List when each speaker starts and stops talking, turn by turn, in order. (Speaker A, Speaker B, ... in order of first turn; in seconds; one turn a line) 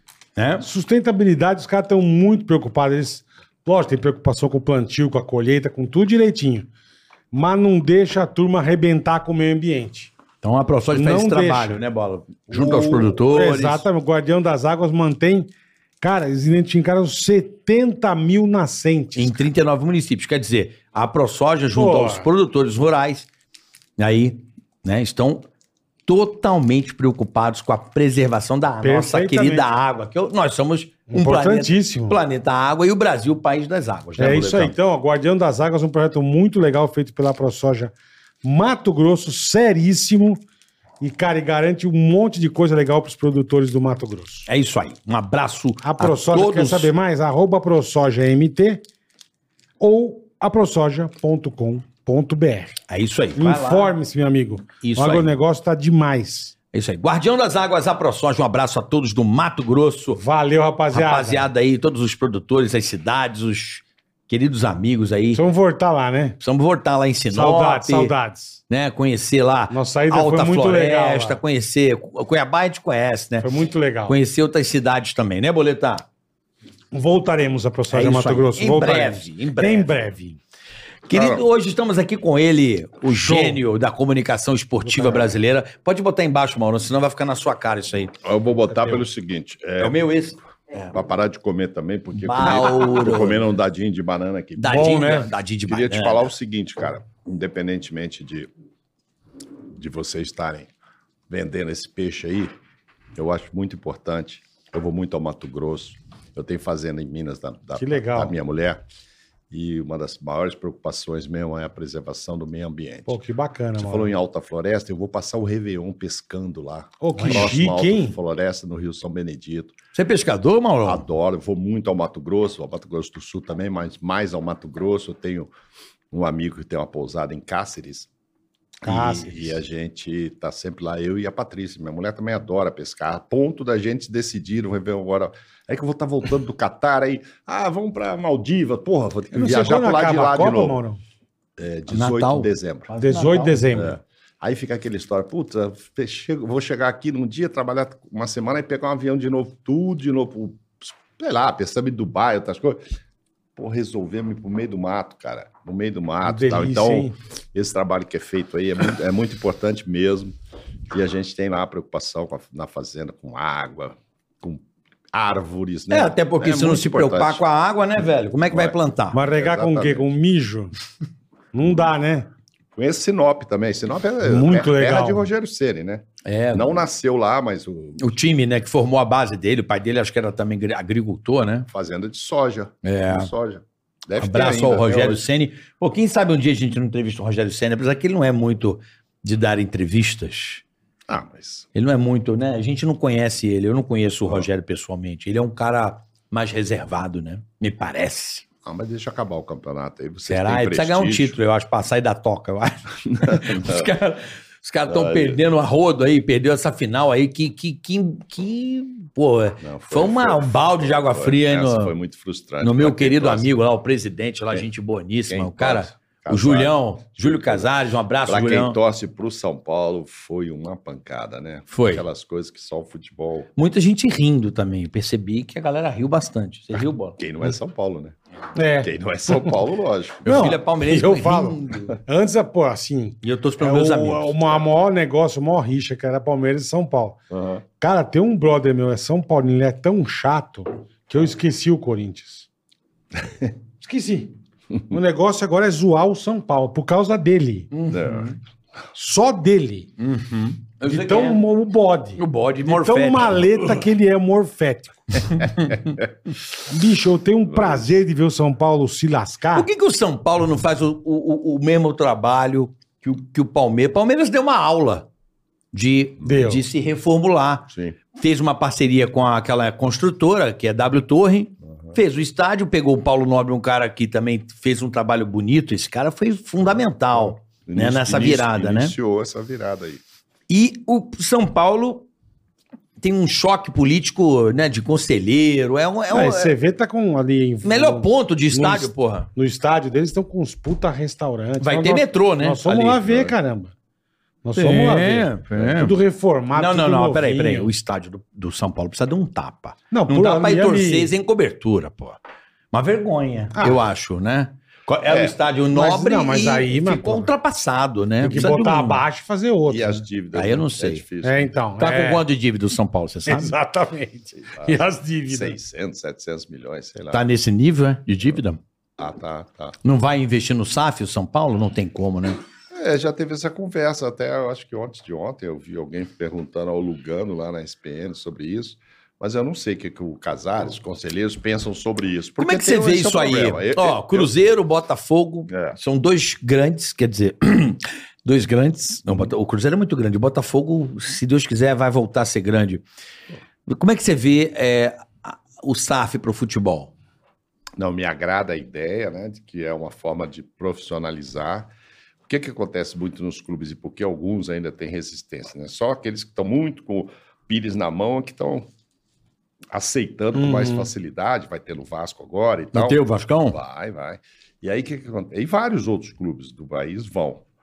Speaker A: 0.4-0.6
Speaker B: 0.6-6.7
Speaker B: 7.3-10.1
Speaker A: 10.4-13.8
Speaker B: 10.9-11.8
Speaker B: 12.5-15.5
Speaker B: 16.0-19.4
Speaker A: 19.1-23.3
Speaker B: 21.7-22.3
Speaker A: 24.0-25.4
Speaker A: 26.1-34.7
Speaker B: 28.8-29.6
Speaker B: 31.1-32.2
Speaker B: 34.2-40.4
Speaker B: 41.0-44.5
Speaker A: 44.5-46.9
Speaker B: 45.8-48.8
Speaker B: 49.8-52.8
Speaker A: 52.9-53.9
Speaker B: 53.4-56.5
Speaker A: 54.8-55.3
Speaker A: 56.7-60.2
Speaker B: 60.1-61.5
Speaker A: 60.9-65.4
Speaker B: 65.3-66.4
Speaker A: 66.4-68.1
Speaker B: 67.3-68.6
Speaker A: 68.7-73.5
Speaker B: 69.7-71.4
Speaker B: 73.4-74.2
Speaker A: 74.1-76.1
Speaker B: 76.9-80.4
Speaker A: 77.9-80.1
Speaker A: 81.1-88.1
Speaker C: 81.1-81.4
Speaker B: 83.1-83.6
Speaker B: 84.9-85.3
Speaker C: 88.2-90.0
Speaker A: 89.8-90.9
Speaker C: 90.9-98.5
Speaker A: 92.1-93.5
Speaker A: 94.6-96.3
Speaker B: 94.7-95.3
Speaker C: 99.7-100.7
Speaker C: 101.3-102.5
Speaker C: 103.1-108.8
Speaker B: 107.8-108.3
Speaker C: 109.5-113.1
Speaker B: 113.1-114.1
Speaker C: 113.8-119.7
Speaker B: 117.0-118.2
Speaker A: 119.9-121.0
Speaker C: 120.8-125.5
Speaker C: 126.1-128.1
Speaker C: 128.8-140.8
Speaker B: 128.8-129.6
Speaker B: 139.3-141.0
Speaker C: 141.6-142.9
Speaker A: 141.9-143.7
Speaker B: 143.0-144.0
Speaker C: 143.7-152.8
Speaker C: 153.6-160.3
Speaker B: 156.2-157.1
Speaker C: 160.9-167.4
Speaker A: 165.9-169.2
Speaker C: 168.5-170.1
Speaker B: 169.1-170.7
Speaker B: 171.5-172.3
Speaker C: 172.7-178.1
Speaker B: 174.2-175.3
Speaker A: 176.2-176.8
Speaker A: 178.0-181.7
Speaker C: 181.7-185.2
Speaker A: 182.8-183.3
Speaker A: 184.2-190.6
Speaker C: 191.1-191.7
Speaker A: 191.7-198.4
Speaker C: 198.6-201.4
Speaker A: 200.3-211.9
Speaker C: 203.1-203.9
Speaker C: 204.9-205.4
Speaker C: 209.6-213.5
Speaker A: 212.6-218.8
Speaker C: 215.3-217.7
Speaker C: 218.3-223.5
Speaker A: 221.7-222.1
Speaker A: 223.6-227.2
Speaker C: 227.2-228.2
Speaker B: 228.6-229.5
Speaker C: 228.8-230.3
Speaker A: 230.2-232.0
Speaker B: 230.3-237.2
Speaker A: 233.2-234.5
Speaker C: 237.3-237.6
Speaker B: 237.8-242.5
Speaker C: 243.2-243.5
Speaker B: 243.8-244.3
Speaker B: 244.9-247.7
Speaker A: 247.7-248.4
Speaker C: 247.9-248.3
Speaker B: 248.9-249.9
Speaker A: 250.0-251.4
Speaker B: 250.9-255.4
Speaker A: 252.2-253.8
Speaker A: 255.3-256.0
Speaker B: 256.6-259.7
Speaker C: 257.5-257.9
Speaker A: 259.5-265.1
Speaker A: 265.7-278.9
Speaker B: 266.2-266.6
Speaker C: 267.7-268.0
Speaker C: 271.6-272.0
Speaker C: 277.4-280.0
Speaker A: 280.5-282.1
Speaker A: 283.0-286.5
Speaker B: 286.1-293.7
Speaker A: 287.6-289.3
Speaker A: 291.6-293.2
Speaker C: 293.1-293.3
Speaker B: 294.4-297.7
Speaker A: 294.6-295.9
Speaker A: 296.5-302.2
Speaker B: 299.9-301.1
Speaker A: 302.7-309.0
Speaker B: 303.6-303.8
Speaker C: 305.1-305.4
Speaker B: 305.7-307.3
Speaker B: 308.2-310.1
Speaker C: 309.7-311.5
Speaker A: 310.3-311.0
Speaker B: 311.2-312.2
Speaker A: 311.8-313.5
Speaker B: 313.3-315.6
Speaker C: 314.4-317.2
Speaker A: 317.1-318.6
Speaker C: 319.0-319.8
Speaker A: 319.8-322.4
Speaker C: 322.7-334.3
Speaker A: 332.4-342.8
Speaker C: 335.5-335.8
Speaker A: 343.6-346.9
Speaker C: 347.8-351.7
Speaker C: 352.3-358.7
Speaker C: 359.7-367.4
Speaker B: 360.4-360.9
Speaker A: 362.7-363.6